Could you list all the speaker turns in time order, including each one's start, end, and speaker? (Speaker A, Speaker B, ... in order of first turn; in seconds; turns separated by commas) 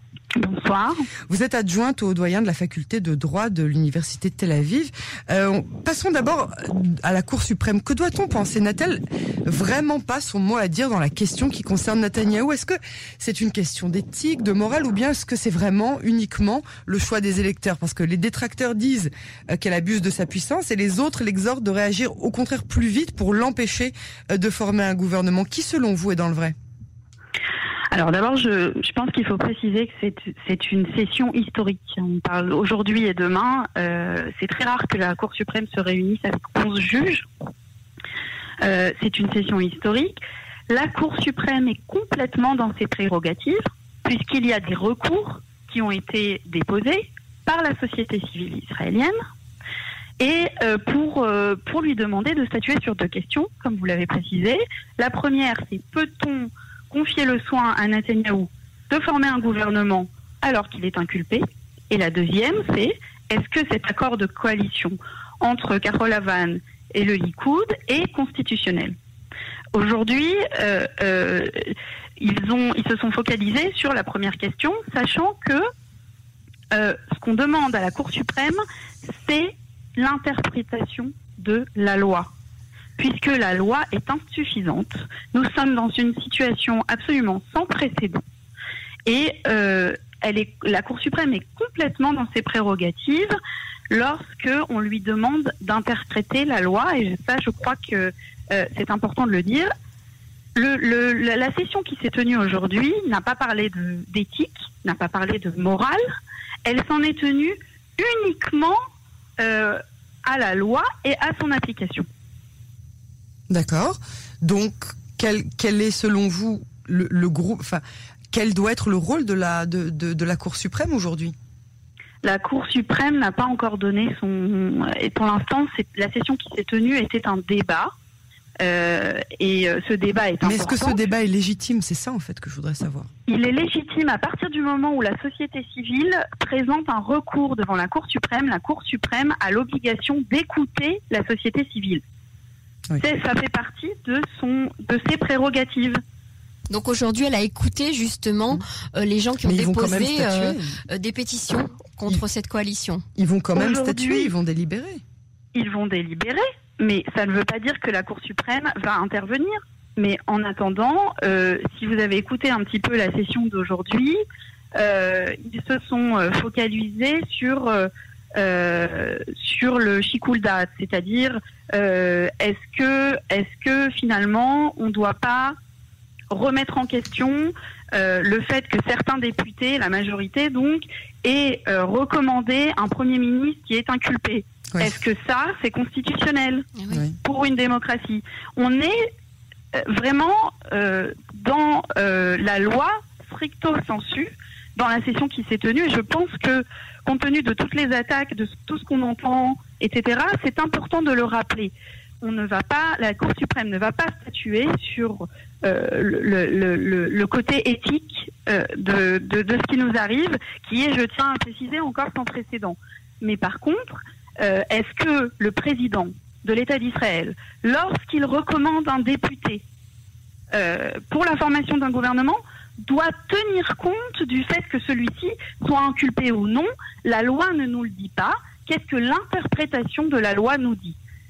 Speaker A: 0.4-1.1, Speaker B: 1.3-26.5, Speaker A: 27.9-37.3, Speaker A: 38.6-49.1, Speaker A: 50.2-69.0, Speaker A: 69.7-75.6, Speaker A: 76.7-82.3, Speaker A: 83.0-88.2, Speaker A: 89.0-93.3, Speaker A: 93.9-99.7, Speaker A: 100.5-106.0, Speaker A: 106.6-108.8, Speaker A: 109.4-112.1, Speaker B: 113.5-121.3, Speaker A: 122.2-127.9, Speaker A: 128.6-131.0, Speaker B: 130.4-133.1, Speaker A: 133.3-142.0, Speaker A: 143.0-146.0, Speaker C: 146.7-153.0, Speaker B: 149.4-150.7, Speaker B: 153.2-155.0, Speaker A: 153.6-154.3, Speaker A: 155.5-164.2, Speaker A: 164.8-175.5, Speaker A: 176.3-189.0, Speaker C: 186.8-187.0, Speaker A: 189.7-219.6, Speaker A: 220.5-230.9